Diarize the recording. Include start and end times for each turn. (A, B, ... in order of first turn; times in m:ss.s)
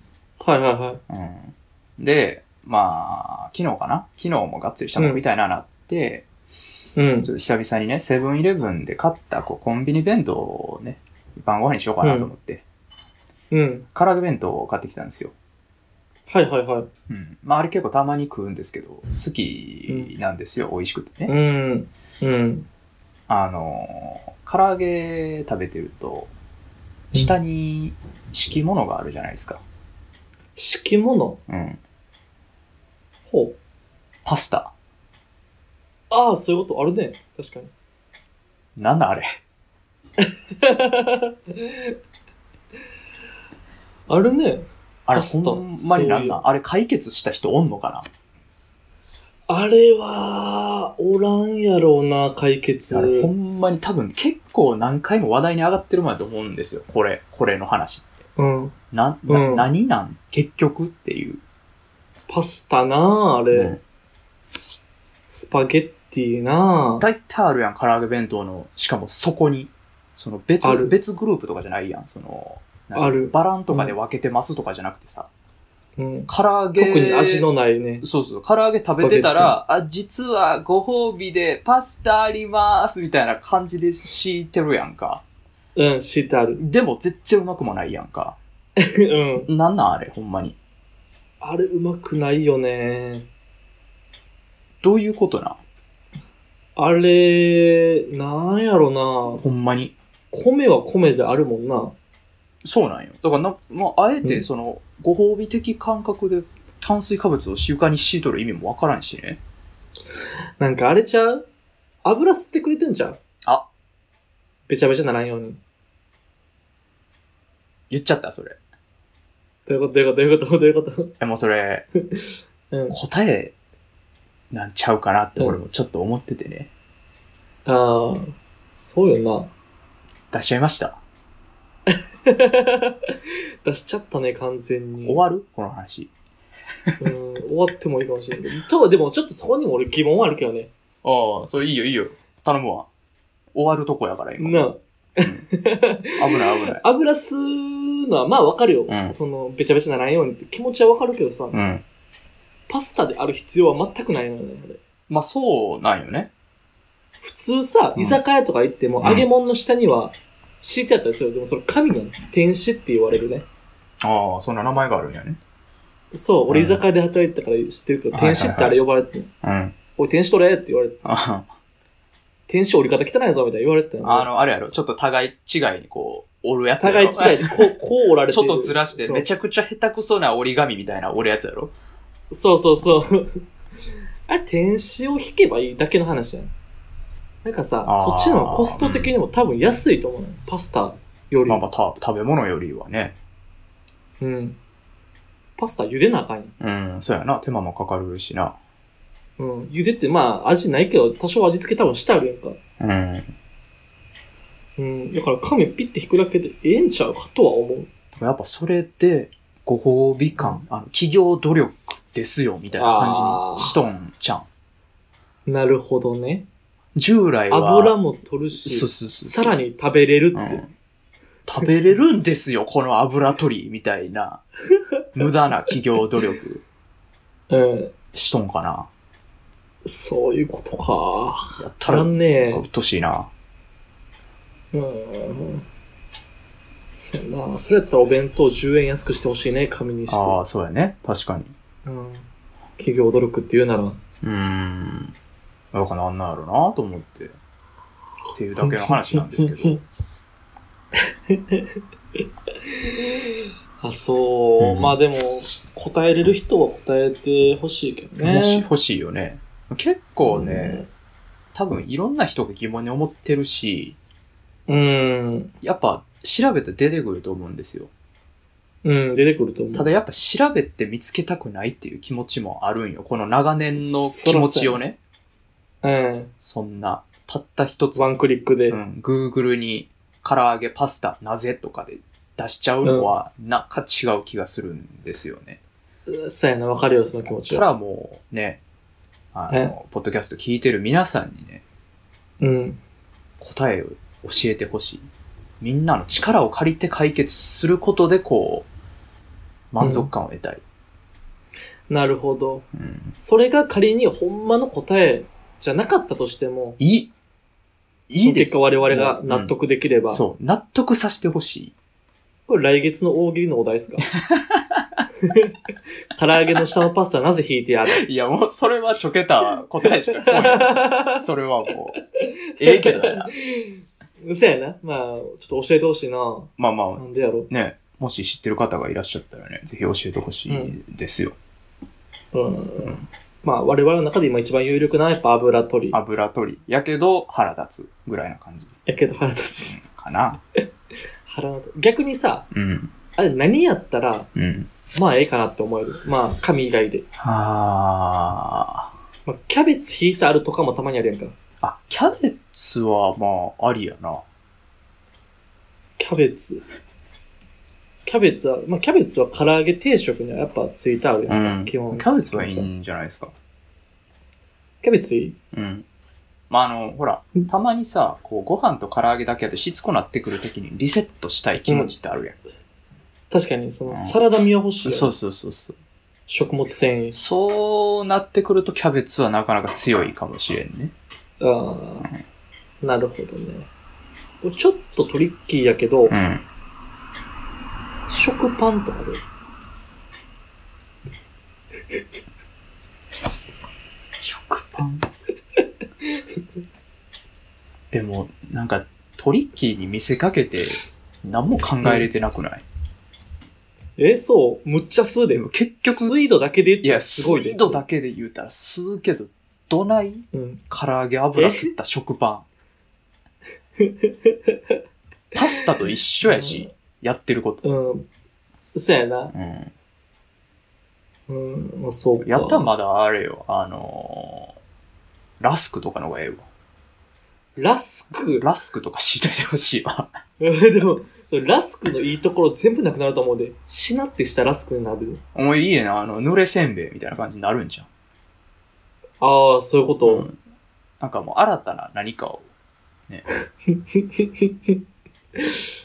0:00.4-0:01.0 A
0:01.1-0:06.3 B
0:07.0-0:07.3 A
0:07.2-0:12.6 B
0:12.0-0:12.3 A
0:13.5-0:13.9 A
0:13.9-0:15.3 B
0:16.3-0:16.9 A
0:17.1-0:21.3 B
0:21.3-0:22.7 A
0:23.3-0:26.3 B
0:27.1-0:29.6 B
0:30.6-0:31.4 A
0:31.5-0:31.8 B
0:33.3-0:33.6 A
0:34.2-0:34.7 B
0:36.1-0:37.7 A
0:38.8-0:39.3 B
0:40.2-0:42.0 A
0:44.1-0:46.4 A
0:45.1-0:48.1 B
0:49.5-0:53.3 A
0:52.9-0:58.2 B
0:58.4-0:58.8 A
0:58.9-1:01.4 B
0:59.3-0:59.7 A
1:02.3-1:03.8 A
1:03.5-1:03.8 B
1:05.3-1:07.1 A
1:07.0-1:15.3 B
1:10.6-1:11.0 A
1:13.0-1:13.9 A
1:16.0-1:18.0 A
1:16.3-1:17.5 B
1:18.0-1:25.2 B
1:18.8-1:19.6 A
1:25.8-1:26.6 A
1:26.6-1:28.4 B
1:28.8-1:29.5 A
1:29.5-1:30.6 B
1:31.4-1:33.3 A
1:34.8-1:35.6 B
1:36.8-1:39.4 A
1:39.4-1:40.0 B
1:40.3-1:42.0 A
1:42.6-1:49.4 B
1:50.6-1:51.5 A
1:52.0-1:53.2 A
1:54.7-1:55.6 A
1:57.9-1:58.6 B
1:59.7-2:01.2 A
2:01.2-2:01.8 B
2:02.1-2:03.0 A
2:02.9-2:03.5 B
2:04.5-2:06.7 B
2:07.6-2:09.5 A
2:10.3-2:11.0 B
2:11.9-2:15.2 A
2:15.0-2:16.1 B
2:17.0-2:20.7 A
2:21.0-2:22.9 B
2:23.6-2:25.5 B
2:24.4-2:31.6 A
2:26.2-2:26.8 B
2:28.9-2:29.2 B
2:31.5-2:31.8 B
2:32.7-2:34.8 A
2:35.1-2:36.3 B
2:37.2-2:43.5 A
2:44.0-2:45.4 B
2:46.1-2:49.3 A
2:46.5-2:46.8 B
2:48.1-2:48.8 B
2:49.4-2:49.8 B
2:50.0-2:51.0 A
2:51.0-2:51.5 B
2:52.5-2:54.3 A
2:54.0-2:57.8 B
2:56.8-2:59.3 A
2:58.3-3:01.7 B
3:02.3-3:03.4 A
3:04.3-3:06.5 A
3:07.4-3:11.6 A
3:07.8-3:09.1 B
3:11.5-3:13.2 B
3:14.2-3:14.6 A
3:15.6-3:16.6 A
3:16.6-3:18.6 B
3:19.4-3:22.6 A
3:22.8-3:23.3 B
3:24.8-3:27.9 A
3:28.2-3:34.5 B
3:32.7-3:33.8 A
3:35.5-3:36.5 A
3:37.0-3:38.0 B
3:37.5-3:40.6 A
3:38.6-3:39.6 B
3:40.3-3:40.7 B
3:41.5-3:44.4 B
3:45.2-3:46.6 B
3:47.5-3:47.9 A
3:48.1-3:48.9 B
3:49.8-3:52.6 A
3:51.6-3:53.3 B
3:54.7-3:55.6 A
3:56.9-4:00.4 A
4:00.1-4:01.5 B
4:01.8-4:04.0 A
4:04.2-4:05.1 B
4:05.7-4:07.4 B
4:08.4-4:09.8 B
4:08.6-4:09.8 A
4:11.0-4:11.8 A
4:12.6-4:18.7 A
4:14.6-4:15.0 B
4:18.2-4:20.8 B
4:20.2-4:20.9 A
4:21.5-4:24.0 B
4:24.7-4:25.5 A
4:25.6-4:27.9 B
4:28.8-4:29.9 A
4:29.7-4:35.0 B
4:33.8-4:34.8 A
4:35.8-4:36.3 A
4:36.4-4:38.0 B
4:38.0-4:38.8 A
4:38.7-4:45.6 B
4:42.8-4:43.1 A
4:46.1-4:47.6 A
4:47.2-4:48.6 B
4:49.3-4:51.6 B
4:49.5-4:49.8 A
4:52.4-4:52.8 A
4:53.4-4:55.1 B
4:55.6-4:58.7 B
4:59.7-5:00.6 B
4:59.8-5:00.1 A
5:01.9-5:02.7 A
5:02.8-5:03.1 B
5:03.2-5:06.8 A
5:06.8-5:07.1 B
5:08.1-5:09.5 B
5:08.2-5:10.2 A
5:10.1-5:11.7 B
5:12.5-5:14.1 A
5:14.2-5:15.1 B
5:15.2-5:15.6 A
5:16.2-5:18.1 A
5:17.9-5:22.0 B
5:20.1-5:21.2 A
5:22.2-5:27.5 A
5:22.6-5:23.3 B
5:26.6-5:31.4 B
5:30.5-5:30.8 A
5:32.3-5:36.0 A
5:32.8-5:33.1 B
5:35.9-5:38.8 B
5:38.9-5:39.8 A
5:39.7-5:40.4 B
5:41.2-5:42.5 A
5:42.5-5:42.9 B
5:43.2-5:44.3 A
5:44.4-5:44.7 B
5:44.9-5:47.0 A
5:47.2-5:48.9 B
5:49.3-5:51.4 A
5:51.6-5:54.2 B
5:56.0-5:56.6 A
5:58.0-6:02.7 A
6:01.3-6:03.3 B
6:04.8-6:05.4 A
6:05.5-6:05.8 B
6:06.5-6:12.4 B
6:11.7-6:11.9 A
6:13.3-6:15.1 A
6:13.9-6:14.2 B
6:14.8-6:15.8 B
6:16.3-6:17.2 A
6:17.1-6:20.9 B
6:21.4-6:22.1 A
6:22.8-6:23.7 A
6:24.4-6:26.2 A
6:26.1-6:26.4 B
6:28.1-6:29.2 A
6:34.2-6:35.1 B
6:35.6-6:36.2 A
6:37.9-6:42.6 B
6:44.0-6:47.8 A
6:45.3-6:46.2 B
6:46.8-6:52.5 B
6:50.3-6:50.6 A
6:51.4-6:51.7 A
6:53.8-6:54.8 A
6:55.3-6:57.6 B
6:56.2-6:56.7 A
6:57.6-6:58.1 A
6:58.7-6:59.3 A
6:59.3-6:59.7 B
7:01.3-7:02.7 A
7:02.2-7:04.6 B
7:05.4-7:06.5 B
7:07.6-7:08.5 A
7:08.4-7:10.1 B
7:10.4-7:15.2 A
7:15.4-7:17.9 B
7:19.2-7:20.3 A
7:20.0-7:20.4 B
7:21.0-7:22.4 B
7:23.7-7:24.8 A
7:25.4-7:25.7 A